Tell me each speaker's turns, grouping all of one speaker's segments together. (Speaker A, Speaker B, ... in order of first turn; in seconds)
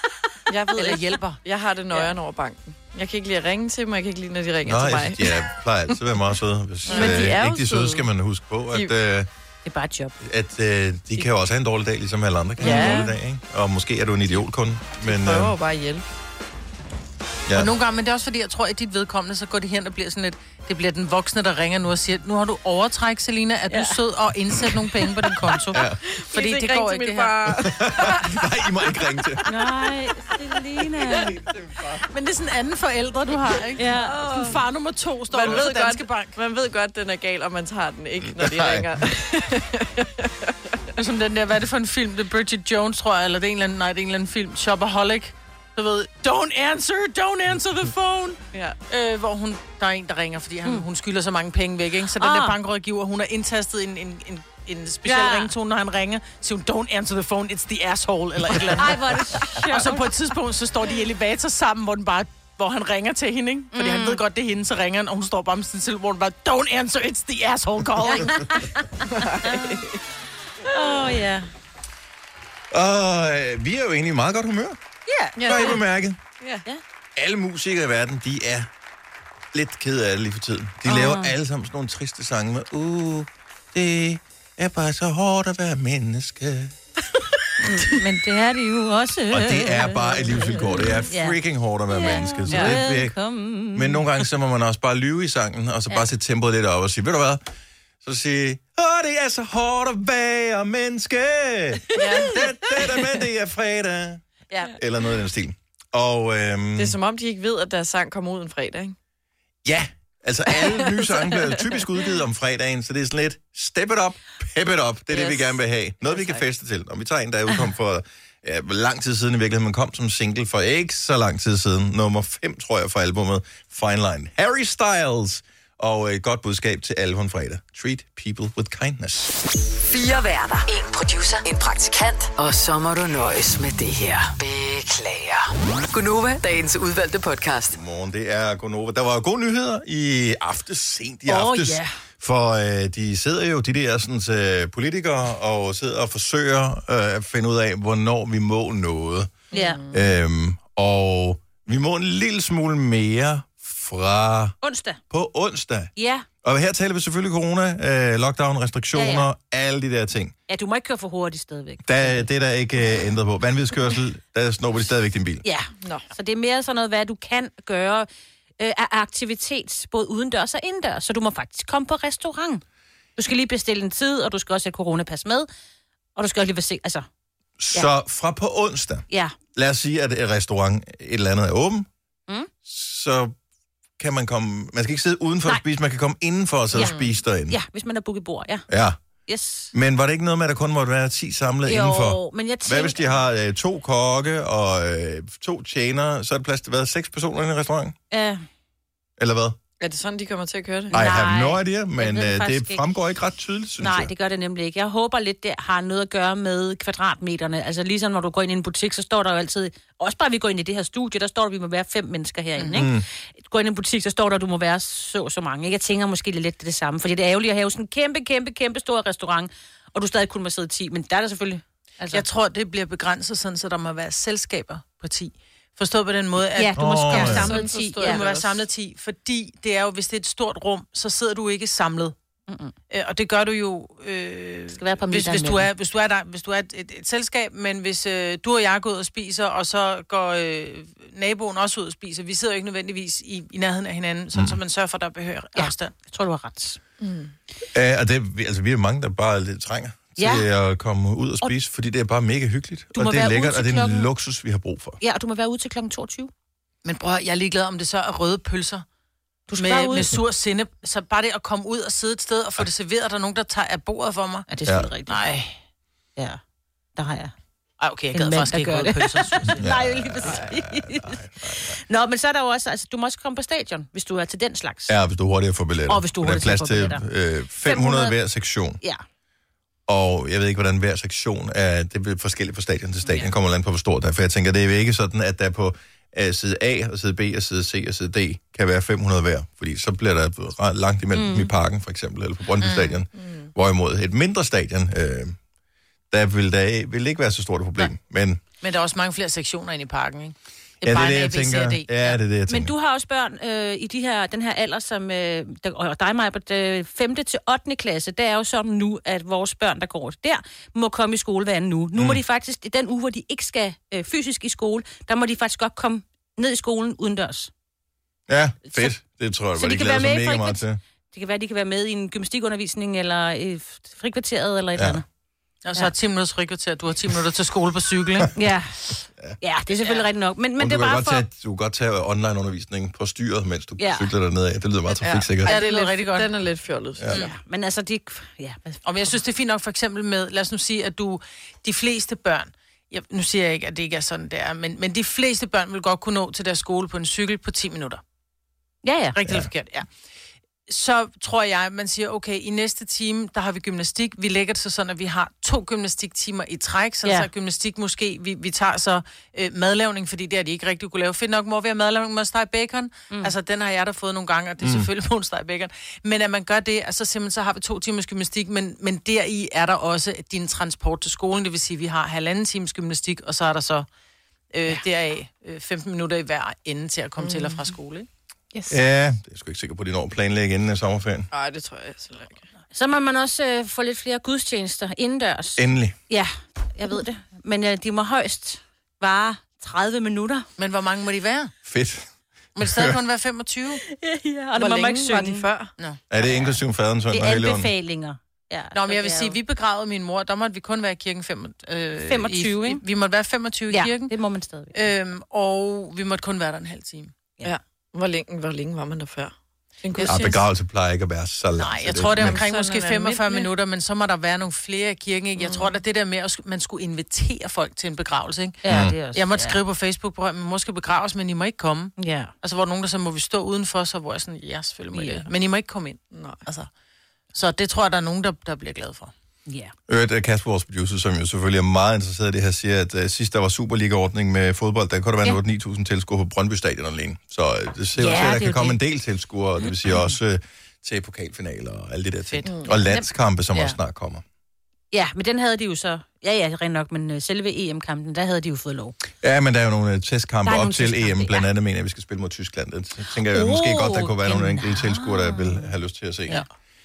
Speaker A: 0.5-5.4, 6.8-8.1, 12.6-13.1, 15.0-16.1, 26.1-28.4, 34.0-34.6, 35.3-40.8, 48.5-48.8, 69.1-70.0, 75.3-75.8, 76.4-76.6, 92.5-92.8, 101.9-102.4, 106.7-108.9, 115.1-116.4, 149.5-150.0, 186.8-187.1, 199.8-201.0, 227.2-228.6, 247.0-247.3, 293.1-293.5, 335.0-337.3, 377.2-377.6, 381.3-382.4, 394.5-395.7, 407.4-410.4, 412.1-413.5, 415.4-415.7, 426.1-426.4, 442.4-442.8
Speaker B: 0.7-1.4, 17.5-27.5, 31.9-36.4, 41.0-68.4, 212.6-212.8, 222.1-232.1, 232.9-245.9, 256.8-258.8, 259.6-264.5, 265.1-265.6, 267.8-269.7, 292.6-292.9, 298.6-302.2, 325.6-328.3, 335.4-336.3, 338.8-348.0, 349.1-349.9, 350.7-373.9, 374.5-378.1, 390.6-391.5, 392.6-393.8, 398.7-404.1, 404.7-407.1, 411.6-426.7, 427.3-429.1, 442.3-443.0
Speaker C: 4.7-9.3, 10.2-15.5, 17.5-17.7, 25.7-26.0, 27.5-29.4, 38.2-38.9, 72.7-74.8, 75.4-76.2, 77.2-78.7, 79.5-86.8, 89.3-93.1, 93.7-97.4, 98.0-104.2, 104.7-107.0, 109.6-129.4, 137.7-154.5, 155.1-155.9, 156.4-160.3, 161.8-165.4, 177.6-181.9, 182.6-183.3, 184.0-187.6, 188.7-189.0, 189.7-197.9, 199.2-199.6, 200.9-204.1, 212.7-213.1, 226.7-227.6, 244.3-244.6, 247.7-255.0, 269.6-271.8, 274.9-278.8, 279.9-295.4, 296.1-298.4, 300.8-302.7, 311.9-312.2, 318.3-320.8, 324.8-325.0, 330.6-335.6, 349.2-349.5, 364.6-364.9, 378.7-381.3, 385.6-385.9, 391.6-392.1, 392.6-392.9, 396.1-397.7, 410.0-412.4, 418.7-418.9, 429.9-444.2, 449.2-456.4
Speaker D: 6.9-7.3, 9.6-10.1, 12.6-13.1, 23.7-24.0, 29.4-31.4, 33.8-34.5, 52.2-52.6, 55.0-55.5, 58.6-60.1, 63.7-64.2, 68.1-69.8, 70.7-71.5, 75.1-75.8, 80.8-81.3, 87.6-91.4, 91.9-94.0, 141.3-141.8, 149.5-149.8, 154.6-155.0, 155.9-156.2, 158.9-159.3, 160.5-162.3, 165.4-168.1, 168.6-172.6, 173.2-175.5, 176.2-177.1, 179.1-179.3, 186.7-188.7, 189.3-189.7, 191.6-193.1, 198.1-198.4, 200.9-202.8, 203.8-222.2, 226.5-228.2, 232.5-232.7, 234.7-235.7, 245.6-246.8, 250.2-250.4, 252.9-254.1, 255.0-256.3, 259.5-260.1, 264.5-265.2, 266.9-267.3, 268.1-271.2, 271.8-274.9, 275.9-277.0, 277.6-278.1, 291.1-291.5, 302.5-317.5, 318.7-318.9, 319.6-320.6, 321.1-325.0, 328.3-331.2, 333.8-334.1, 337.1-339.2, 348.8-349.2, 382.7-390.5, 393.8-395.5, 397.1-399.4, 402.0-402.8, 403.7-404.8, 418.6-419.6, 422.0-422.3, 424.9-425.3, 429.5-429.7, 438.0-438.8, 444.9-449.0, 450.4-451.5, 453.3-455.7
Speaker E: 129.8-137.8